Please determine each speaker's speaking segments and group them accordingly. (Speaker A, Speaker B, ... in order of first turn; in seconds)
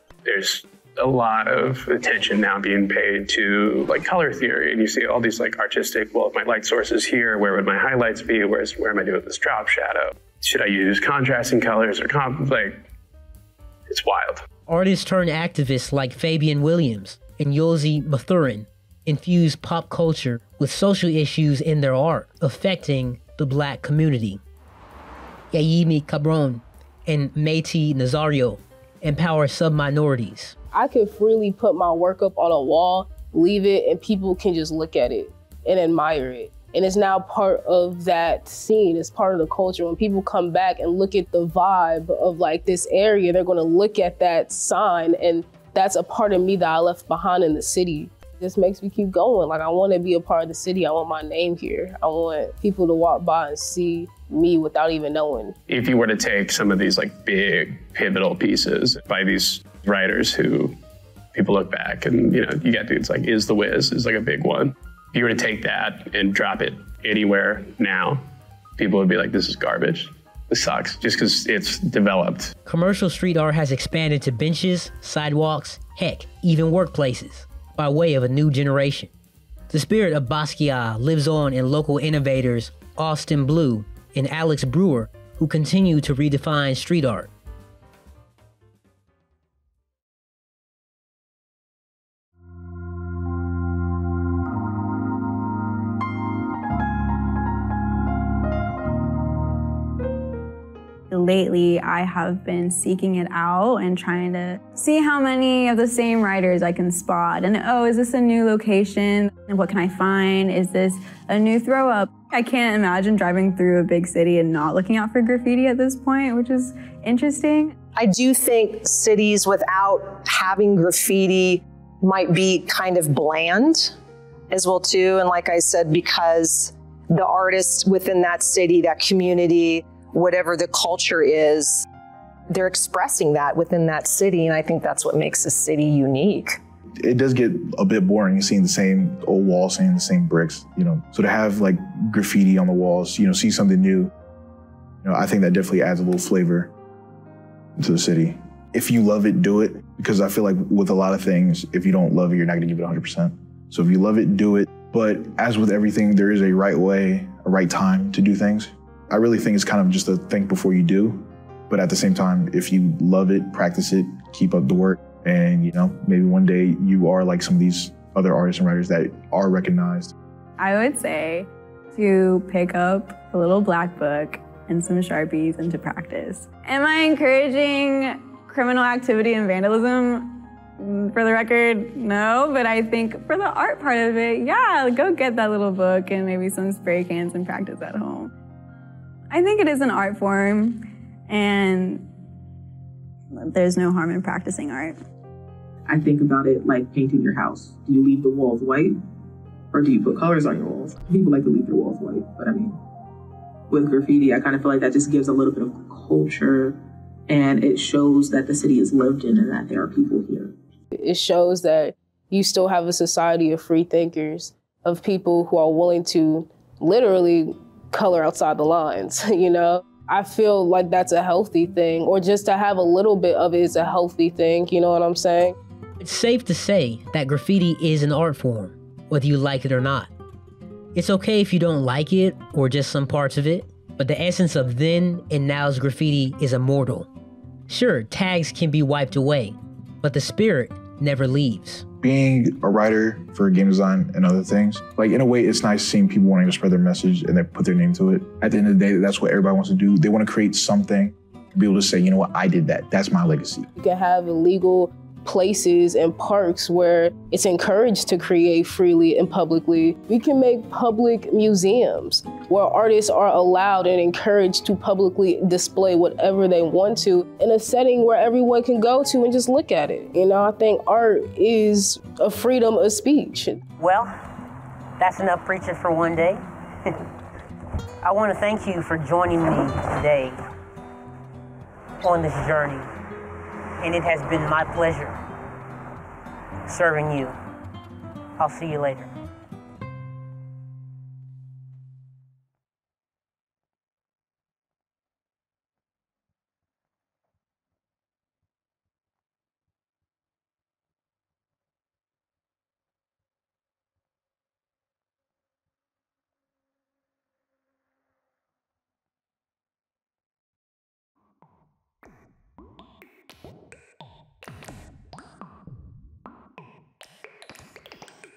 Speaker A: 0.2-12.9, 13.9-14.4, 55.7-60.8, 61.3-68.2, 68.8-72.5
Speaker B: 14.7-24.4, 25.5-30.6, 72.7-79.1, 79.7-87.3, 226.0-230.1, 230.9-237.1, 237.7-241.8
Speaker C: 30.7-55.6, 210.9-225.6, 253.8-273.6
Speaker D: 101.1-117.7, 170.6-188.3, 189.3-192.1, 193.4-195.0
Speaker E: 118.0-123.9, 124.5-131.9, 132.5-136.6
Speaker F: 137.0-144.1, 145.0-146.7, 147.8-170.1, 242.0-253.7
Speaker G: 195.9-199.0, 199.7-202.7, 203.7-210.6
Speaker H: 273.8-274.1, 275.0-276.9, 278.0-280.4, 282.0-282.9, 283.8-285.1, 286.7-287.4, 288.4-289.1